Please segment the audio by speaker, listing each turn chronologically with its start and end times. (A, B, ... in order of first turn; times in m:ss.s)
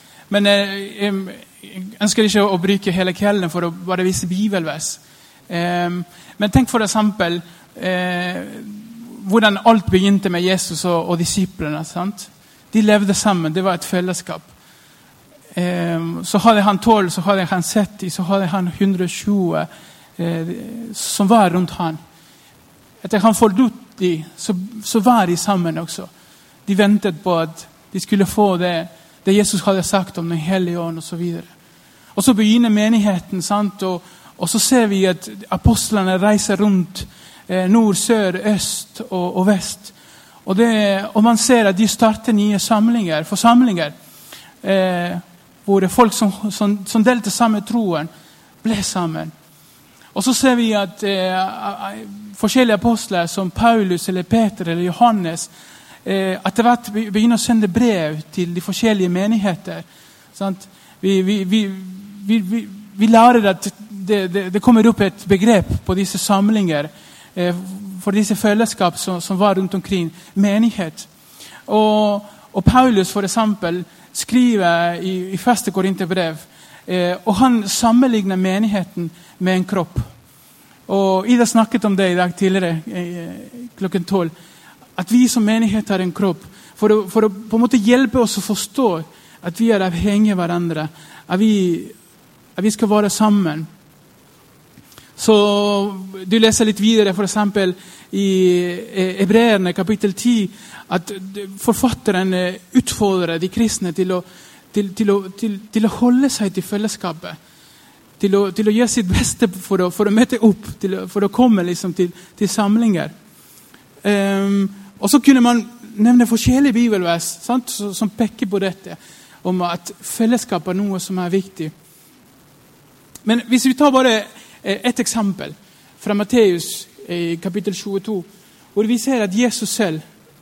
0:00.3-0:14.5 A
0:15.5-0:22.0 A
0:23.0-0:26.1 A
0:26.6-0:31.5 A
0:32.1-0:43.9 A
0:44.6-0:48.1 A
0:48.6-0:49.3 A
0:50.1-0:55.5 A
0:56.0-1:11.1 A
1:11.7-1:20.1 A
1:20.9-1:24.3 A
1:25.0-1:31.9 A
1:32.6-1:33.7 A
1:35.2-1:47.4 A
1:48.2-1:53.1 A
1:54.0-2:01.7 A
2:03.2-2:10.0 A